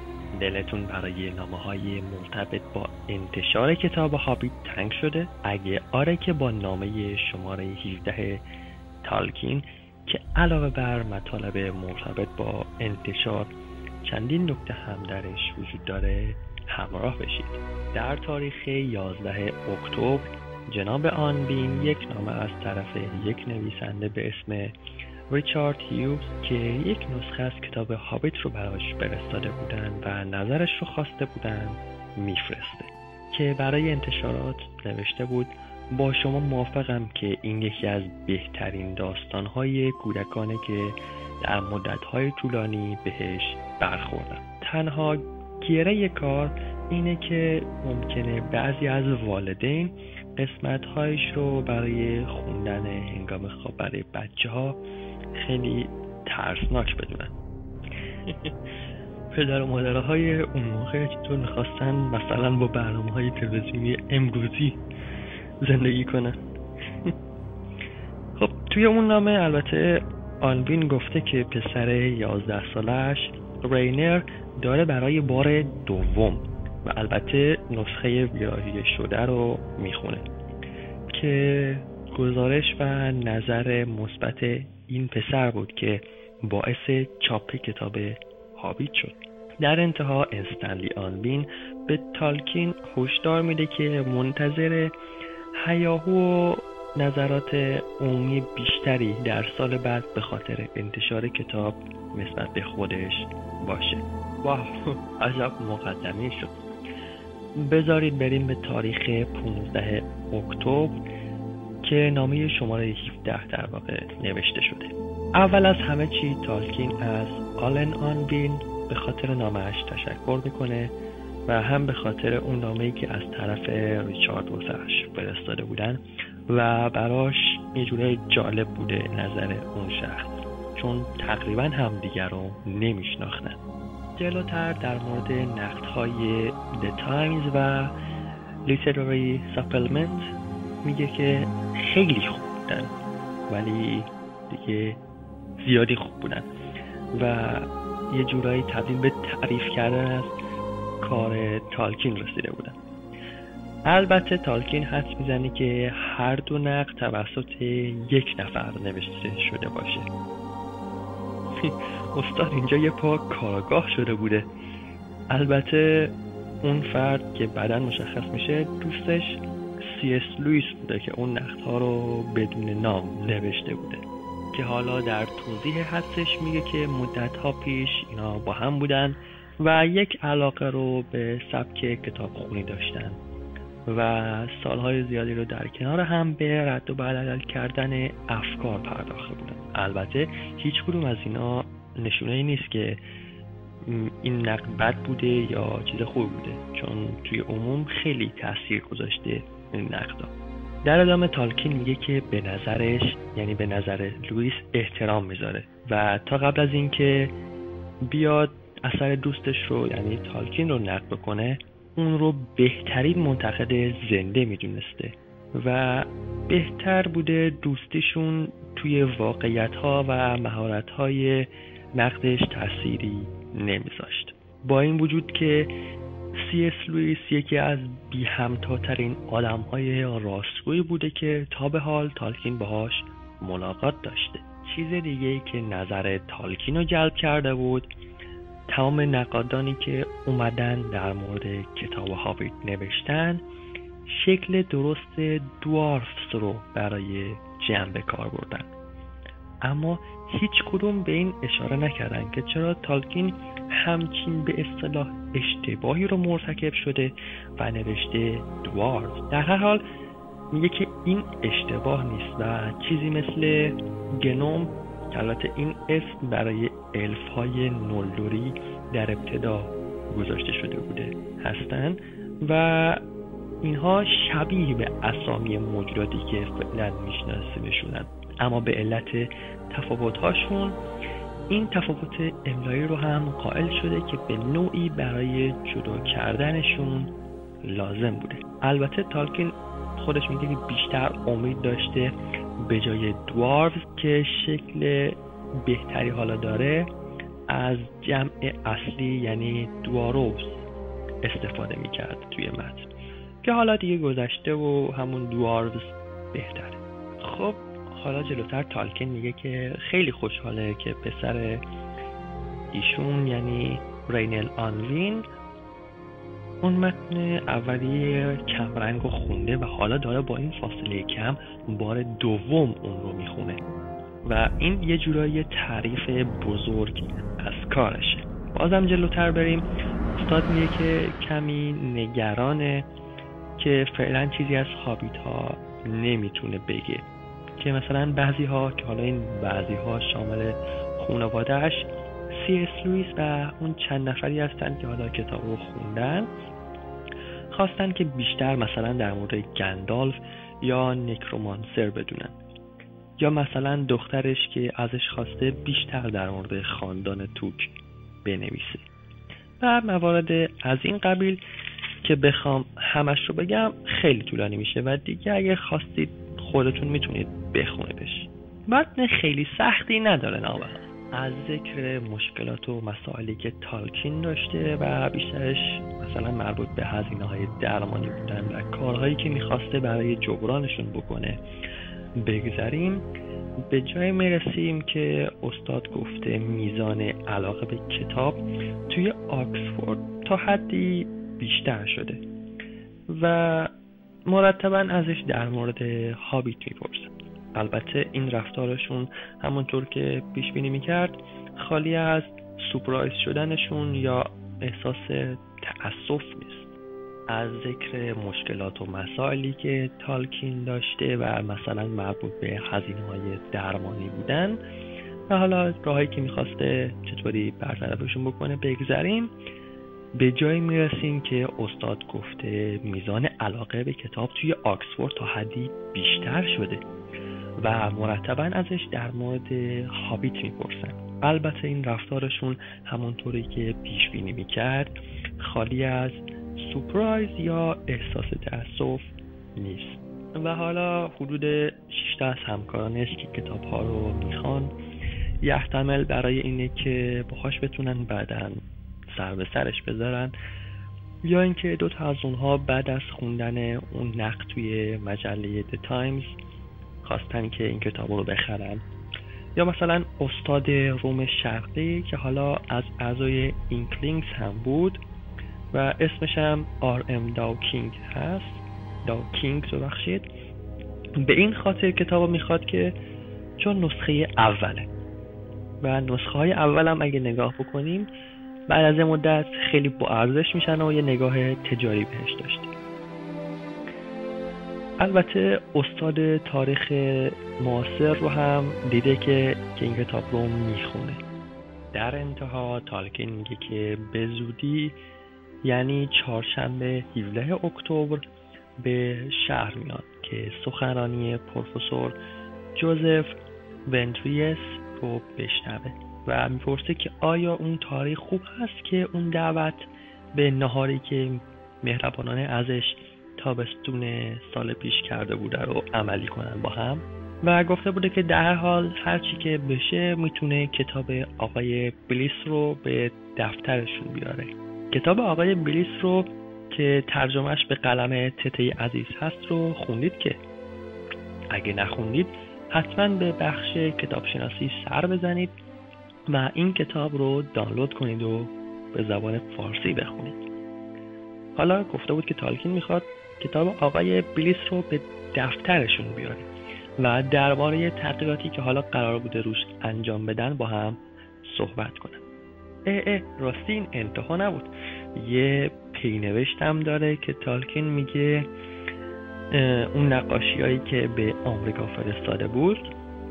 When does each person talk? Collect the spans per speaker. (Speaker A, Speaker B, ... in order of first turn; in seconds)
Speaker A: 0.3-8.4, 9.0-13.5, 14.0-24.7, 25.3-54.8, 55.4-57.3, 58.2-58.5, 59.3-64.8, 65.6-66.4, 68.4-80.3, 81.1-94.9, 95.6-106.6, 107.6-111.0, 111.8-120.9, 121.5-133.6, 134.2-137.9, 138.7-140.3, 140.8-142.9, 143.5-145.0, 145.6-146.5, 147.1-150.3, 151.0-152.8, 153.9-160.1, 161.6-164.5, 165.3-174.0, 174.5-183.2, 183.9-193.0, 193.8-200.3, 200.8-207.3, 208.1-225.7, 226.4-237.9, 238.7-243.4, 244.1-248.7, 249.6-259.8, 260.5-273.0, 273.6-280.8, 281.5-287.1, 287.6-292.1, 292.6-296.9, 297.5-300.6, 301.2-302.9, 303.4-311.6, 312.7-315.2, 316.6-323.6, 324.2-332.9, 333.6-337.1, 337.6-346.3, 347.5-352.4, 353.2-357.7, 358.2-358.9, 359.6-361.4, 362.0-381.4, 382.2-383.1, 383.7-392.2, 393.1-393.7, 394.3-406.7, 407.3-414.6, 415.3-419.3, 420.2-426.8, 427.6-444.7, 445.4-448.6, 449.1-450.3, 451.2-456.4, 457.0-458.8, 459.6-465.0, 465.7-470.2, 471.2-472.9, 473.6-474.9, 475.8-478.1, 478.7-482.7, 485.0-491.2, 491.9-495.0, 495.6-498.2, 498.8-502.2, 502.8-503.4, 503.9-530.4, 531.5-535.5, 536.3-540.4, 541.6-546.5, 547.0-552.2, 552.9-558.5, 559.5-562.9